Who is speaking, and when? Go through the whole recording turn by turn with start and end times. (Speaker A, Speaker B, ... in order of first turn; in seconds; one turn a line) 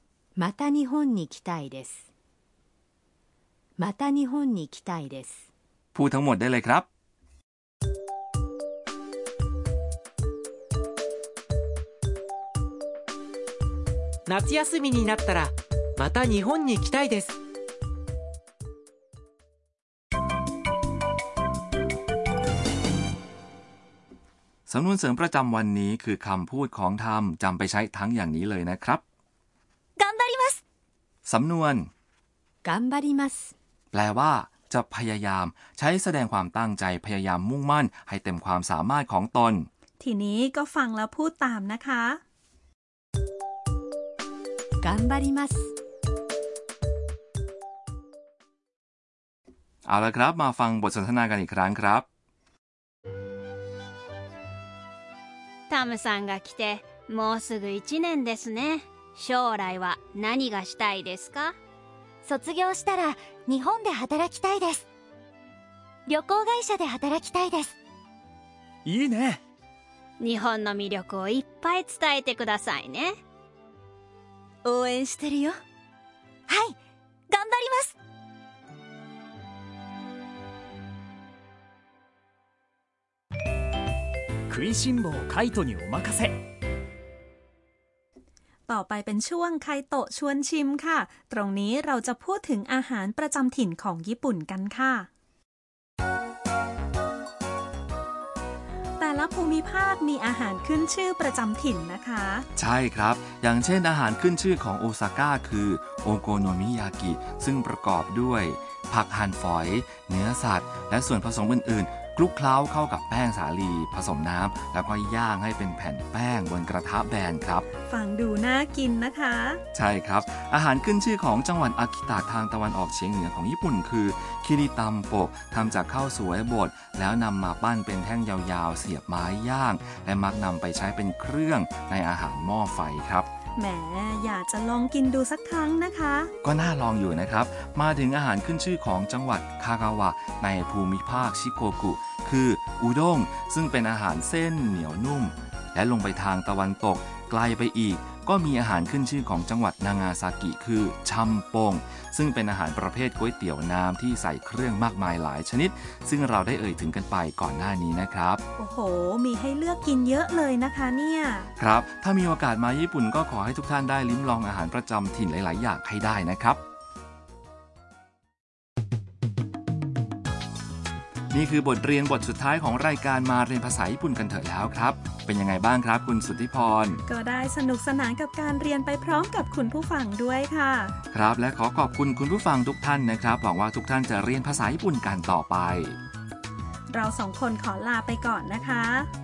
Speaker A: 0.4-2.0
Speaker A: 3.8-5.5
Speaker B: 6.0-6.9
Speaker C: 14.3-17.3
Speaker B: 24.7-29.0
Speaker D: 30.0-30.6
Speaker B: 31.3-31.9
Speaker A: 32.6-33.5
Speaker B: 33.9-39.7
Speaker E: 40.0-42.2
Speaker A: 44.8-45.7
Speaker B: 49.9-52.1
Speaker F: 55.7-61.6
Speaker D: 62.2-64.9
Speaker D: 66.1-67.8
Speaker G: 68.9-69.4
Speaker F: 70.2-73.2
Speaker D: 74.7-75.6
Speaker D: 76.5-76.8
Speaker D: 77.3-78.0
Speaker G: 84.5-86.3
Speaker E: 88.7-95.1
Speaker E: 99.0-102.5
Speaker B: 102.6-117.7
Speaker E: 117.8-119.6
Speaker B: 119.7-133.3
Speaker E: 133.6-136.3
Speaker B: 136.4-158.4
Speaker E: 158.6-161.5
Speaker B: 161.6-166.6
Speaker B: 171.3-177.0
Speaker E: 177.1-180.9
Speaker B: 181.1-186.0
Speaker E: 186.9-189.1